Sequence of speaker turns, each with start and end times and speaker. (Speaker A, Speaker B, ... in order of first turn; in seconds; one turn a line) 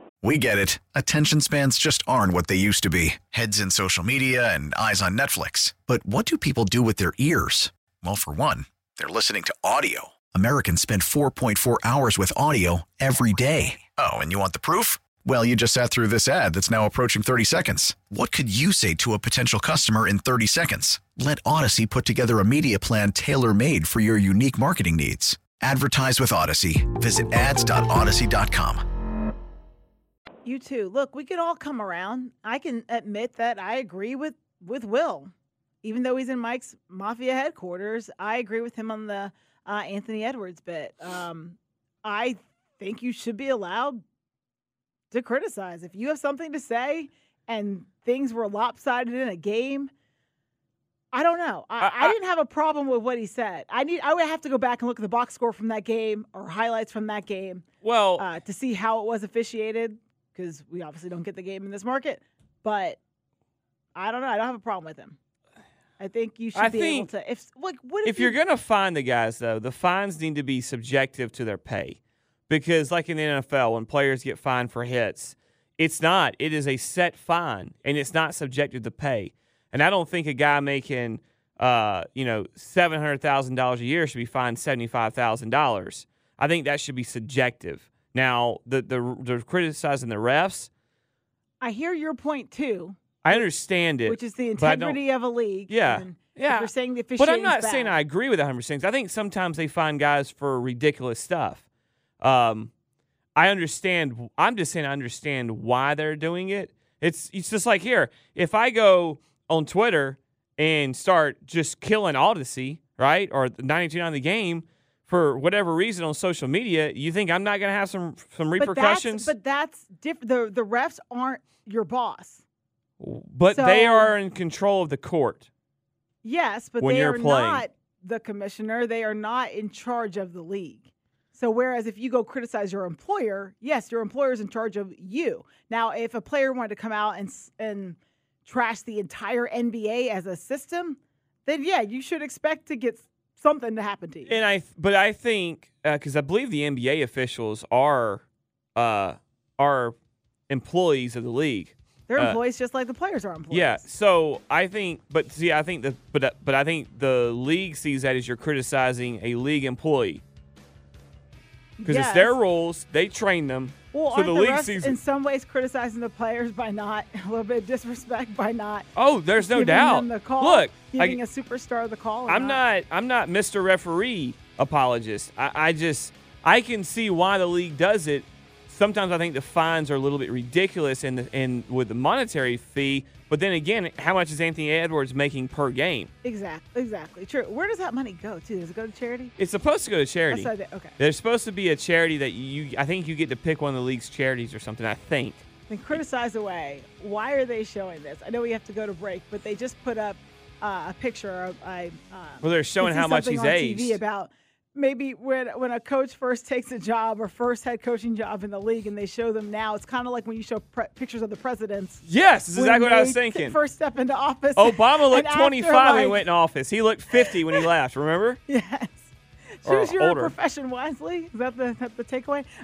Speaker A: 0.2-28.8
Speaker B: 30.4-35.3
Speaker B: 35.8-44.0
Speaker B: 45.1-49.9
Speaker B: 51.1-57.7
Speaker C: 51.8-52.1
Speaker C: 57.8-58.3
Speaker B: 58.2-63.0
Speaker B: 64.0-65.2
Speaker B: 66.0-68.4
Speaker C: 66.5-67.1
Speaker C: 68.0-90.7
Speaker B: 91.6-93.5
Speaker C: 93.2-95.0
Speaker B: 94.0-98.0
Speaker C: 95.7-101.6
Speaker C: 102.2-102.7
Speaker C: 103.4-119.3
Speaker B: 118.6-122.4
Speaker C: 123.0-125.5
Speaker B: 123.5-124.2
Speaker B: 126.2-144.4
Speaker C: 126.8-127.6
Speaker C: 144.3-148.2
Speaker C: 148.8-150.0
Speaker C: 150.5-152.4
Speaker B: 152.1-153.8
Speaker C: 153.5-160.2
Speaker B: 161.8-162.4
Speaker C: 161.8-165.0
Speaker B: 163.9-172.6
Speaker C: 168.9-171.2
Speaker C: 172.3-186.1
Speaker B: 186.2-189.3
Speaker C: 189.4-196.0
Speaker B: 190.3-191.0
Speaker B: 195.7-216.3
Speaker C: 202.4-204.0
Speaker C: 212.0-213.6
Speaker C: 214.6-218.4
Speaker B: 218.5-219.1
Speaker B: 219.6-222.5
Speaker C: 219.7-220.3